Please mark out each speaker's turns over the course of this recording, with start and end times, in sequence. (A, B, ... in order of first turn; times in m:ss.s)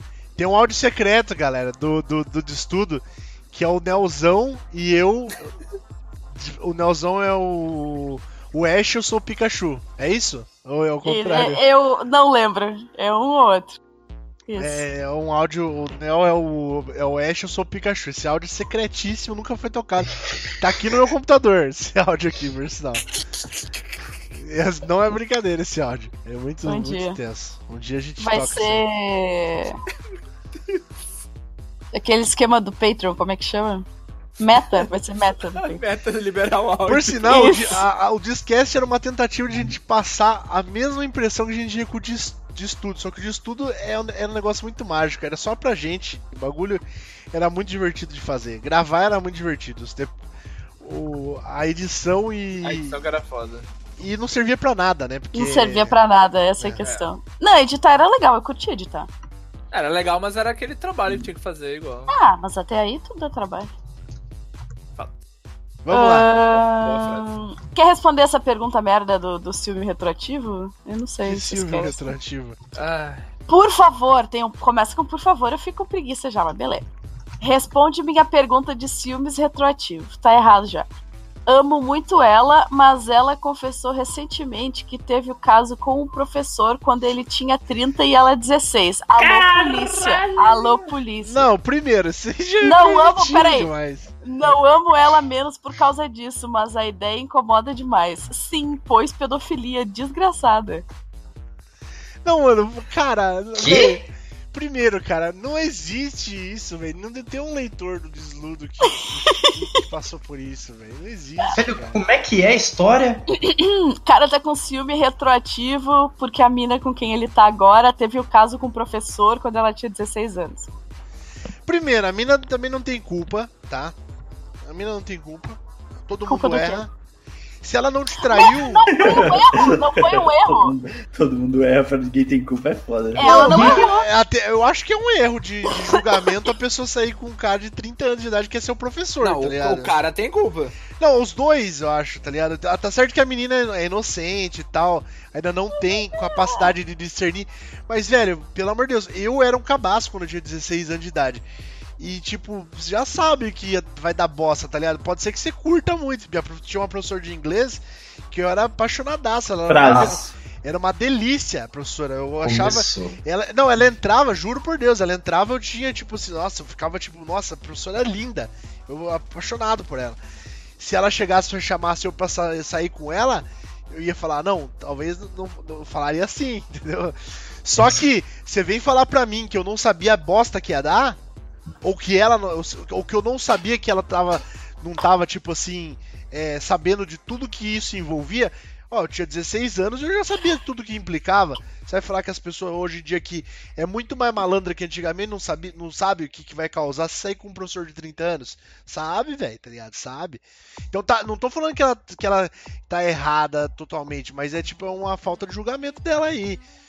0:00.4-0:05.5 A
0:06.3-0:11.6 A
0:11.0-0:13.8 B
0:14.5-0:14.8 B
0:14.6-0:23.0 A
0:24.4-0:28.8 A
0:26.6-0:27.2 B
0:28.2-0:29.8 B
0:31.9-0:33.9 B
0:34.4-0:35.8 B
0:34.5-0:34.9 C
0:35.5-0:37.3 C
0:36.8-0:50.2 A
0:37.3-0:37.8 B
0:50.8-0:53.0 A
0:52.6-0:53.7 C
0:54.0-0:56.0 A
0:55.3-0:59.1 B
0:56.8-0:57.1 C
0:59.7-1:02.1 C
1:02.1-1:03.7 B
1:05.8-1:06.4 A
1:05.9-1:12.1 B
1:06.5-1:07.3 C
1:11.2-1:12.6 A
1:12.8-1:13.2 C
1:13.5-1:16.9 B
1:17.4-1:20.9 B
1:21.5-1:31.4 B
1:29.2-1:30.9 D
1:31.2-1:34.1 A
1:32.6-1:33.7 B
1:34.2-1:40.8 B
1:42.2-1:52.0 A
1:43.6-1:44.0 E
1:51.5-1:53.2 E
1:53.3-2:00.7 B
2:01.7-2:04.0 A
2:04.6-2:06.9 A
2:06.3-2:06.9 B
2:07.6-2:09.3 A
2:08.3-2:10.8 B
2:08.9-2:13.6 D
2:13.2-2:14.1 B
2:13.2-2:20.0 A
2:19.2-2:20.8 C
2:21.0-2:31.4 A
2:26.1-2:26.7 B
2:32.0-2:50.2 A
2:39.7-2:40.3 D
2:39.8-2:40.1 E
2:42.4-2:43.2 E
2:50.8-3:01.2 A
3:01.8-3:26.6 A